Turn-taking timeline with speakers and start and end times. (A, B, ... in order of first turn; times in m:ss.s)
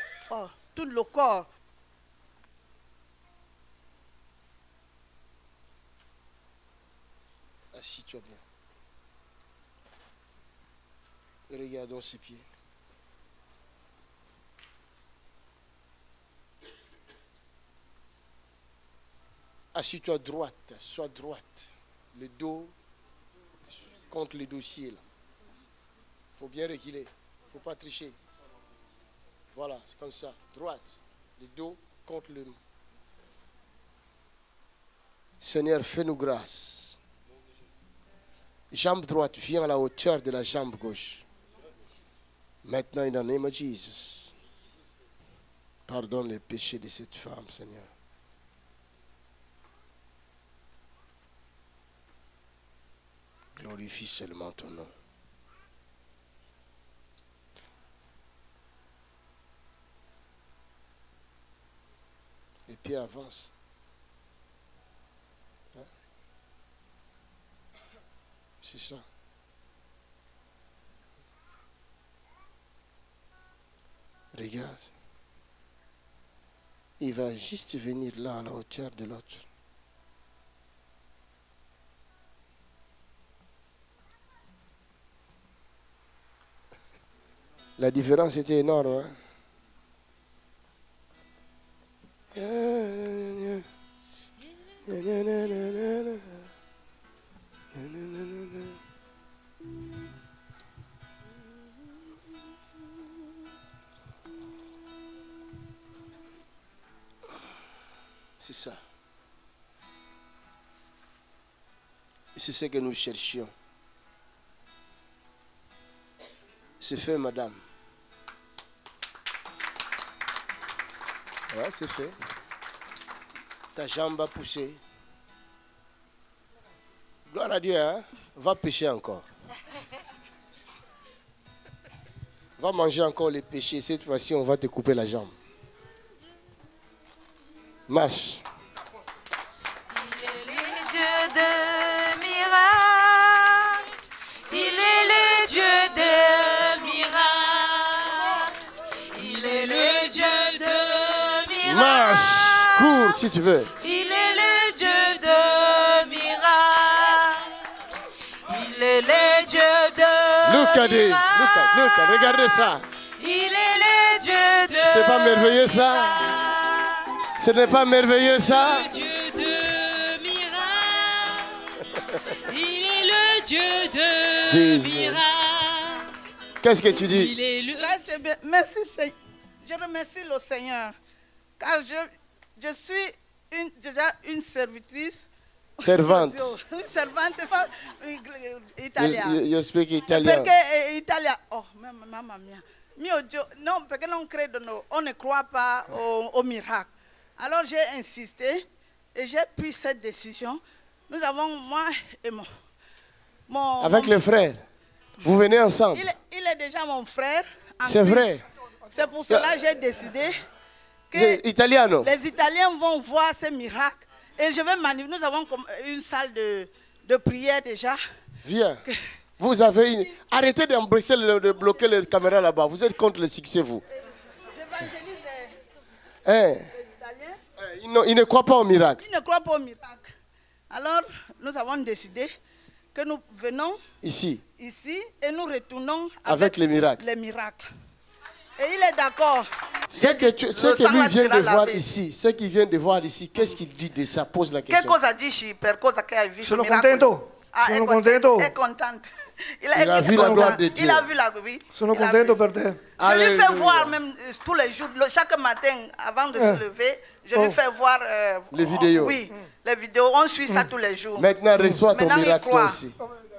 0:00.3-0:01.5 A
0:07.7-0:08.4 B
0:11.5-0:12.5 B
0:19.7-0:22.7 B
0:24.1-0:25.0 B
0:26.4-0:28.2 B
0:29.5-0:32.6 B
0:35.4-0:37.0 B
0:38.7-0:41.2 B
0:42.6-0:44.3 B
0:45.9-0:47.9 B
0:53.6-0:54.9 B
1:02.7-1:03.5 B
1:08.6-1:09.0 B
1:14.3-1:14.9 B
1:17.0-1:19.5 B
1:27.8-1:29.2 B
1:32.3-1:33.7 B
1:34.9-1:36.4 B
1:37.7-1:38.8 B
1:48.4-1:48.8 B
1:52.4-1:53.5 B
1:56.8-1:57.6 B
2:01.5-2:02.2 B
2:03.8-2:04.8 B
2:07.3-2:09.3 B
2:12.6-2:15.4 B
2:17.9-2:18.4 B
2:19.9-2:23.9 C
2:24.5-2:28.6 C
2:29.1-2:33.0 C
2:31.6-2:33.8 B
2:33.8-2:37.6 C
2:38.5-2:41.9 C
2:40.4-2:42.8 B
2:43.2-2:47.2 C
2:44.8-2:46.5 B
2:47.3-2:48.9 B
2:48.6-2:51.7 C
2:52.3-2:56.1 C
2:54.5-2:55.2 B
2:56.6-2:57.4 B
2:56.9-2:57.9 C
2:57.8-3:01.0 A
3:01.6-3:05.3 A
3:05.8-3:06.6 B
3:05.8-3:09.4 A
3:09.0-3:10.5 B
3:10.1-3:22.5 A
3:23.5-3:24.2 A
3:23.8-3:24.6 B
3:25.2-3:26.1 B
3:25.9-3:28.4 A
3:27.8-3:28.4 B
3:28.9-3:30.4 A
3:29.3-3:29.6 B
3:31.1-3:31.4 A
3:31.1-3:32.1 B
3:32.0-3:38.0 A
3:38.4-3:38.8 B
3:39.4-3:43.8 B
3:44.5-3:45.6 A
3:46.2-3:46.7 B
3:46.7-3:47.4 A
3:47.6-3:49.0 B
3:49.0-3:50.1 A
3:50.7-3:52.3 A
3:52.9-3:53.8 A
3:54.0-3:54.4 B
3:54.6-3:57.6 A
3:56.3-3:57.0 B
3:58.6-4:01.8 A
3:59.9-4:05.0 B
4:04.7-4:09.1 A
4:06.4-4:08.5 D
4:09.6-4:12.4 A
4:09.8-4:11.1 B
4:10.1-4:10.5 D
4:11.7-4:12.8 D
4:13.0-4:13.9 B
4:13.0-4:21.3 A
4:16.4-4:16.6 D
4:18.5-4:19.2 B
4:21.2-4:23.0 B
4:21.6-4:21.8 D
4:21.9-4:22.8 A